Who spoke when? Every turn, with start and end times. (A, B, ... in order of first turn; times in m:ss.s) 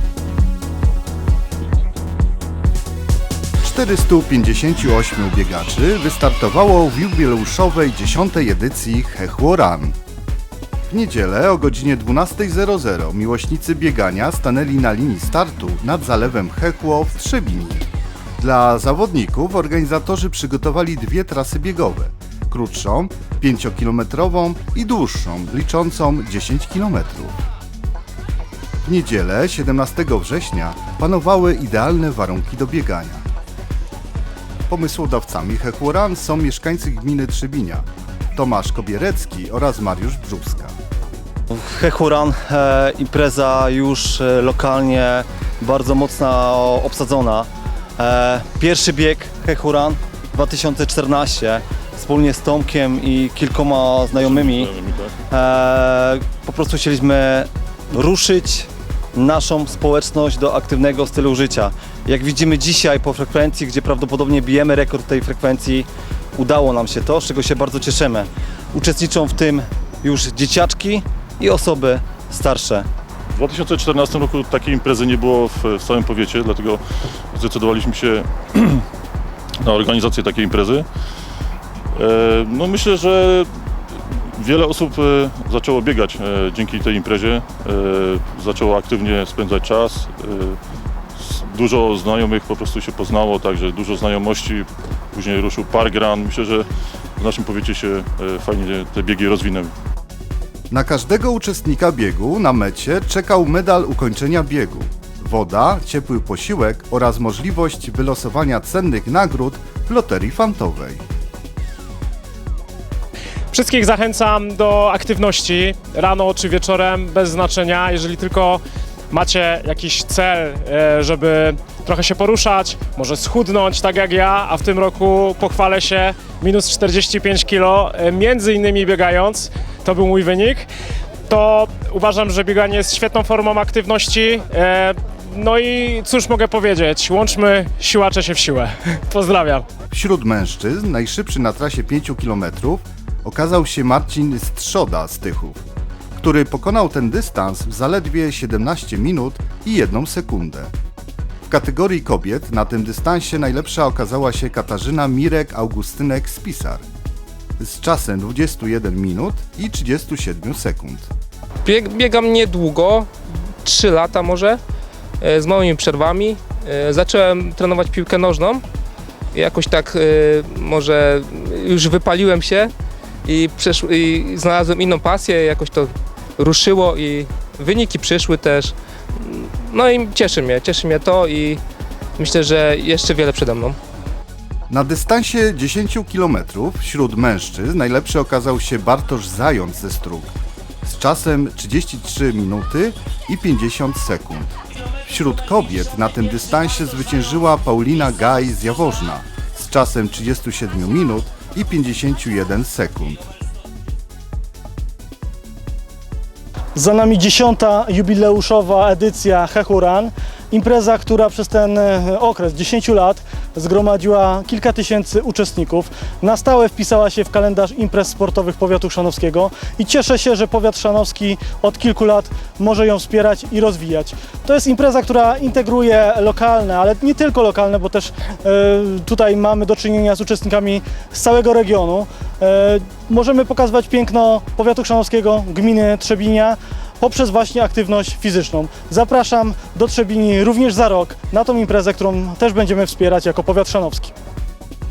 0:03.6-0:10.0 A
0:10.9-0:17.9 A
0:18.4-0:27.4 A
0:28.8-0:33.2 A
0:34.7-0:40.7 A
0:41.5-0:54.8 B
0:54.1-0:55.1 C
0:55.3-1:12.9 B
1:13.4-1:18.8 C
1:19.6-1:20.9 C
1:22.0-1:30.6 C
1:31.2-1:39.7 C
1:40.7-1:51.0 A
1:53.5-2:10.7 D
2:11.3-2:19.7 D
2:19.9-2:25.6 A
2:26.2-2:30.7 A
2:31.5-2:36.8 A
2:37.6-2:41.1 A
2:41.6-2:43.1 E
2:43.6-2:44.6 E
2:45.2-2:48.6 E
2:49.3-2:52.7 E
2:53.2-3:01.6 E
3:02.2-3:03.8 E
3:04.7-3:23.3 A
3:26.8-4:04.1 F